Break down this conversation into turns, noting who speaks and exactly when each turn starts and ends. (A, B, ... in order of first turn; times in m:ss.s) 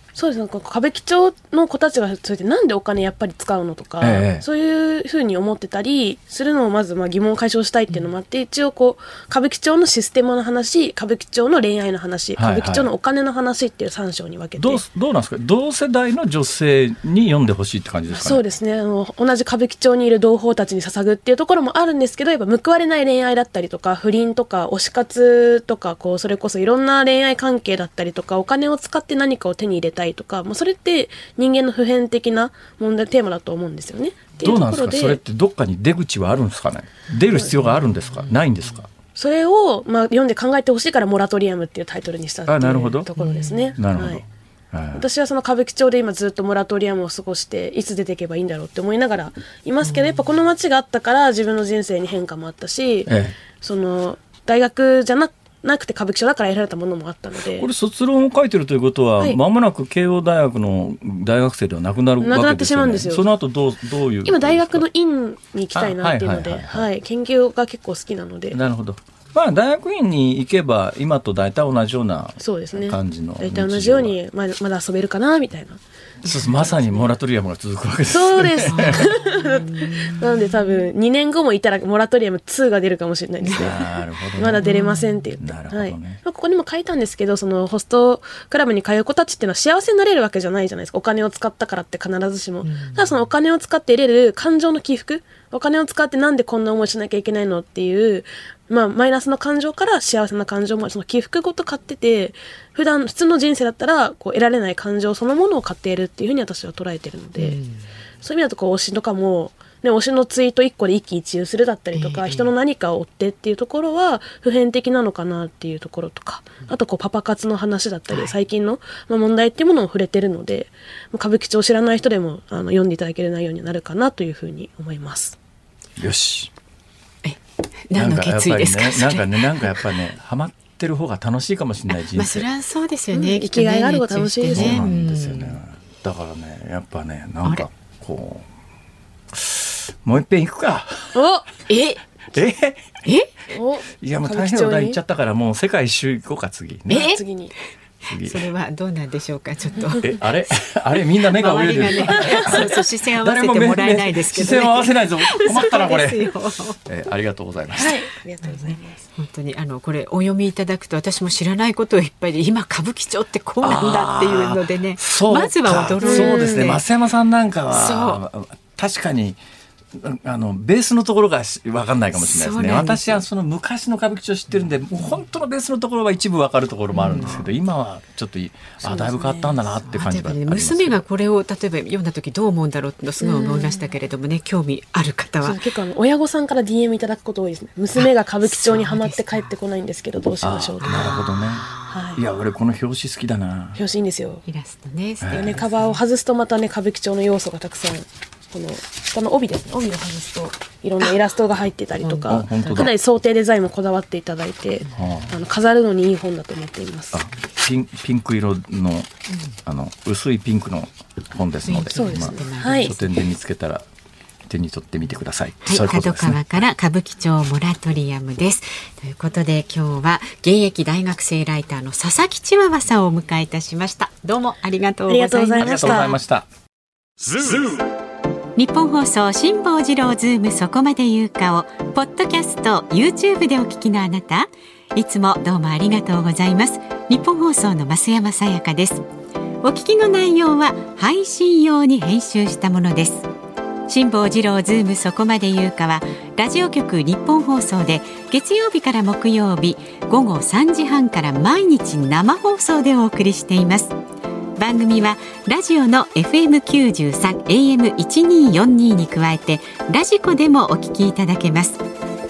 0:00.2-0:14.8 A
0:04.0-0:04.4 B
0:12.4-0:12.9 B
0:14.6-0:18.5 B
0:18.1-0:35.2 A
0:34.4-0:38.9 B
0:37.6-0:38.4 C
0:39.2-0:44.2 A
0:42.5-0:43.1 B
0:43.2-0:43.8 C
0:43.8-0:45.0 B
0:44.9-0:57.7 A
0:49.8-0:50.2 C
0:53.1-0:53.4 B
0:57.5-1:04.8 B
1:02.2-1:03.2 A
1:04.2-1:08.6 A
1:05.7-1:06.9 B
1:08.5-1:14.2 B
1:12.4-1:15.8 A
1:16.2-1:19.2 B
1:16.2-1:16.7 C
1:18.1-1:47.6 A
1:18.7-1:20.7 C
1:23.4-1:23.9 C
1:23.5-1:24.6 B
1:24.6-1:25.4 C
1:25.4-1:26.2 B
1:32.6-1:33.2 C
1:47.4-1:47.9 C
1:48.2-2:05.4 A
1:51.9-1:52.5 C
1:58.1-1:58.4 C
2:06.0-2:06.5 B
2:07.2-2:09.9 C
2:08.0-2:12.5 B
2:11.9-2:15.6 C
2:13.1-2:14.8 A
2:14.5-2:18.5 B
2:19.3-2:21.2 B
2:21.2-2:21.5 A
2:21.7-2:22.0 C
2:22.3-2:23.0 B
2:23.0-2:23.3 C
2:23.5-2:25.0 A
2:24.0-2:27.1 B
2:26.9-2:27.2 C
2:26.9-2:27.5 A
2:28.0-2:28.4 B
2:28.2-2:30.2 C
2:30.0-2:36.3 B
2:31.0-2:36.8 C
2:32.2-2:32.6 A
2:36.8-2:38.0 B
2:37.8-2:39.0 A
2:38.4-2:46.8 C
2:43.6-2:49.4 B
2:46.0-2:46.8 A
2:47.7-2:48.2 C
2:50.0-3:01.0 B
2:52.1-2:53.2 C
2:56.9-2:57.5 C
2:58.8-2:59.6 A
2:59.9-3:05.6 C
3:03.2-3:03.8 A
3:05.4-3:11.2 A
3:08.0-3:09.5 C
3:10.4-3:13.8 B
3:10.8-3:12.2 C
3:11.9-3:12.2 A
3:13.8-3:14.4 A
3:14.5-3:16.0 C
3:15.2-3:15.5 B
3:15.4-3:27.2 A
3:22.0-3:22.9 C
3:22.3-3:22.9 B
3:24.9-3:25.3 B
3:27.1-3:29.1 B
3:29.7-3:33.8 B
3:31.6-3:33.2 C
3:31.9-3:32.9 A
3:34.5-3:36.6 B
3:35.7-3:46.2 C
3:45.1-3:46.2 A
3:45.6-3:46.5 B
3:47.3-3:47.8 B
3:48.6-3:59.0 C
3:59.6-4:03.3 C
4:03.9-4:14.0 C
4:14.6-4:21.8 C